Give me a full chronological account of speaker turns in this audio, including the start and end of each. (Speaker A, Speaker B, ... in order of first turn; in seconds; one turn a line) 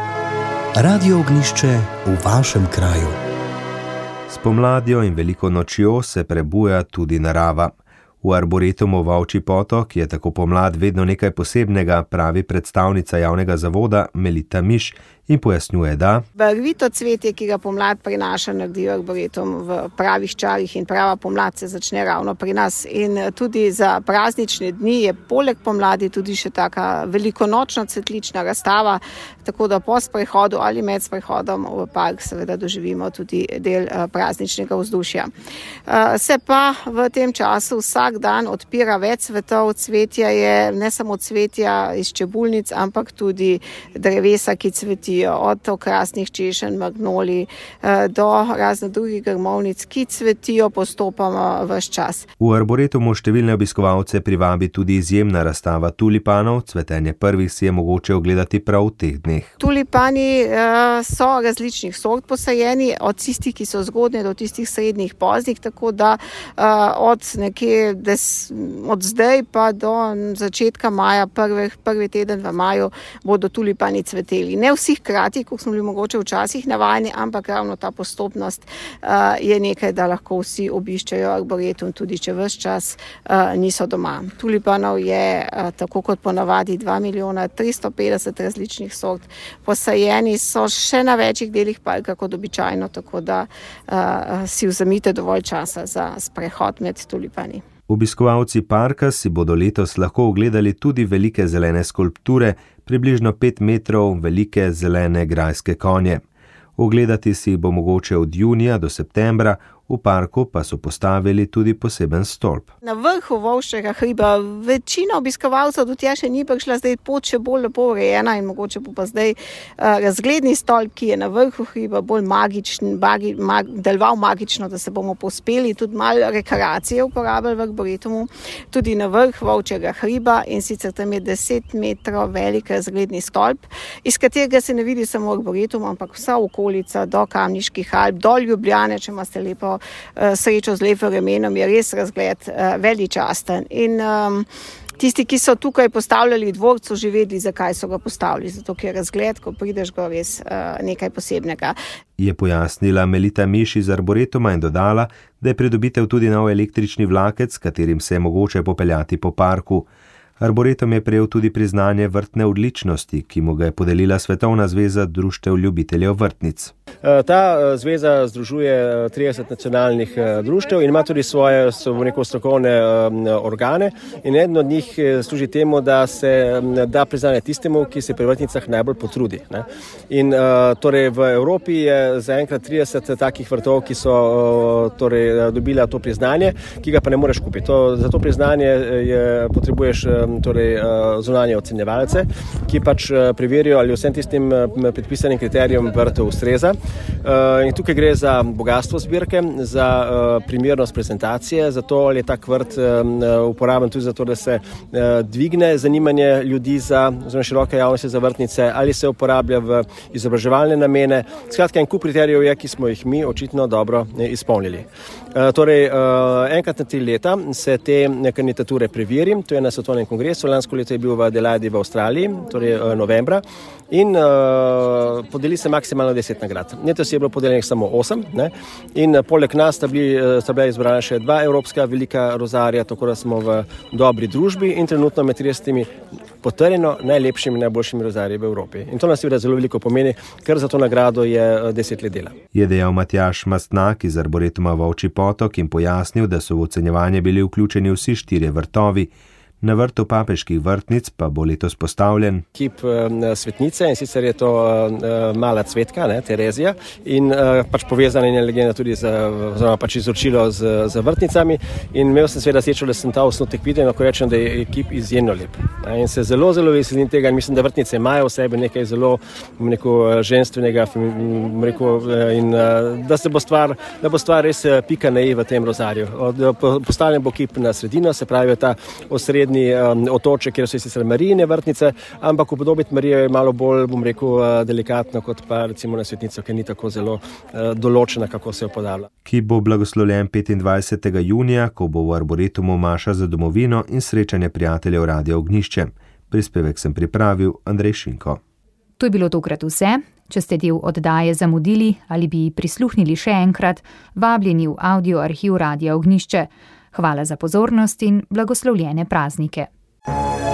Speaker A: 0.8-3.1
Speaker B: 4.3-16.2
Speaker C: 16.4-35.3
Speaker C: 35.9-52.3
Speaker B: 52.4-59.5
Speaker C: 59.6-97.6
Speaker B: 97.9-106.2
Speaker B: 106.8-112.7
Speaker C: 112.8-144.5
Speaker C: 145.0-151.8
Speaker B: 152.2-159.9
Speaker B: 160.4-166.7
Speaker D: 167.0-235.9
Speaker D: 236.4-242.3
Speaker B: 242.5-249.1
Speaker B: 249.6-252.4
Speaker D: 252.5-289.1
Speaker B: 289.2-298.4
Speaker E: 299.0-309.7